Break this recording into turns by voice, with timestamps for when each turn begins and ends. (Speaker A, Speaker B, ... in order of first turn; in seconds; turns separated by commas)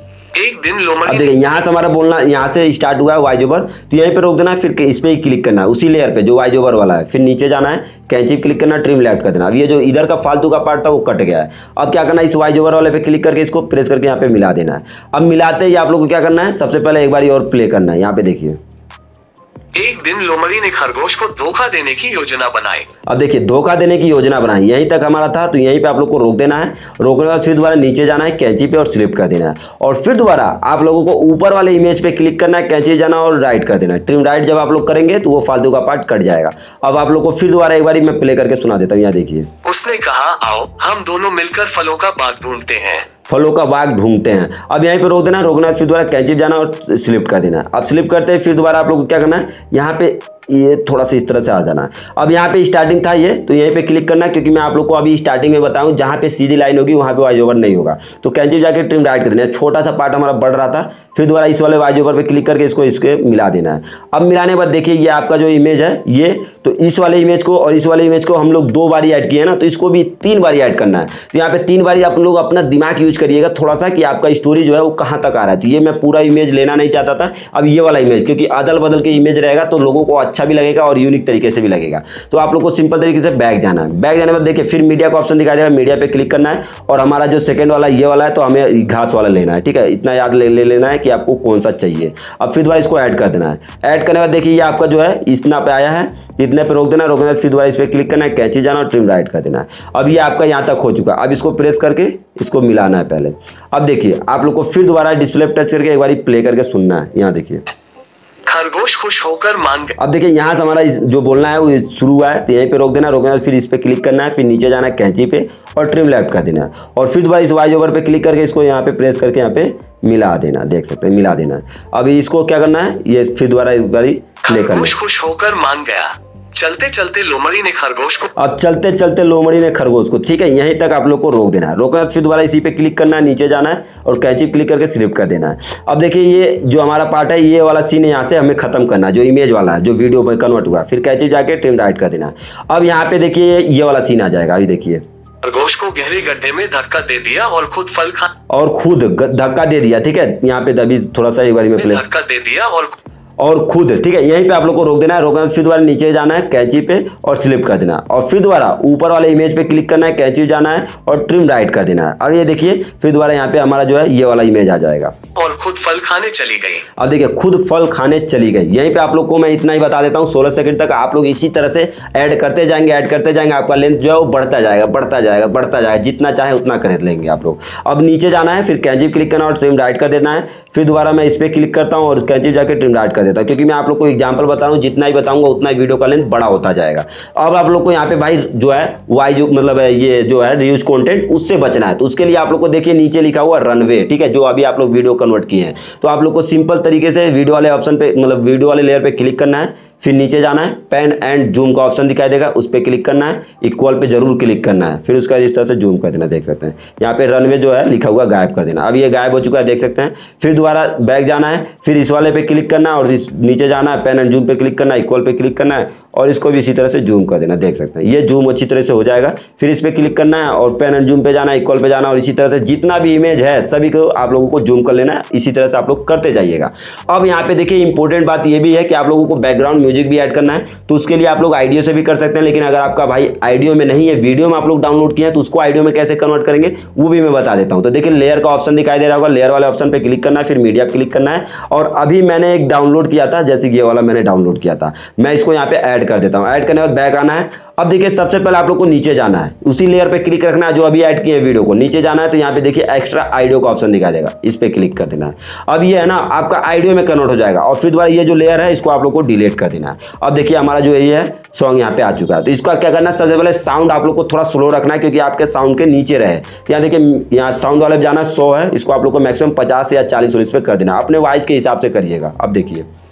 Speaker A: 0.3-1.3, Speaker B: 1.1-18.6, Speaker A: 19.8-22.9, Speaker B: 23.1-39.5, Speaker A: 39.6-43.1, Speaker B: 43.3-107.7, Speaker A: 108.5-110.0, Speaker B: 110.0-124.9, Speaker A: 124.5-128.3, Speaker B: 128.4-145.0, Speaker A: 145.4-148.3, Speaker B: 148.5-152.0, Speaker A: 151.8-153.0, Speaker B: 153.4-165.1, Speaker A: 165.3-166.9, Speaker B: 167.0-272.9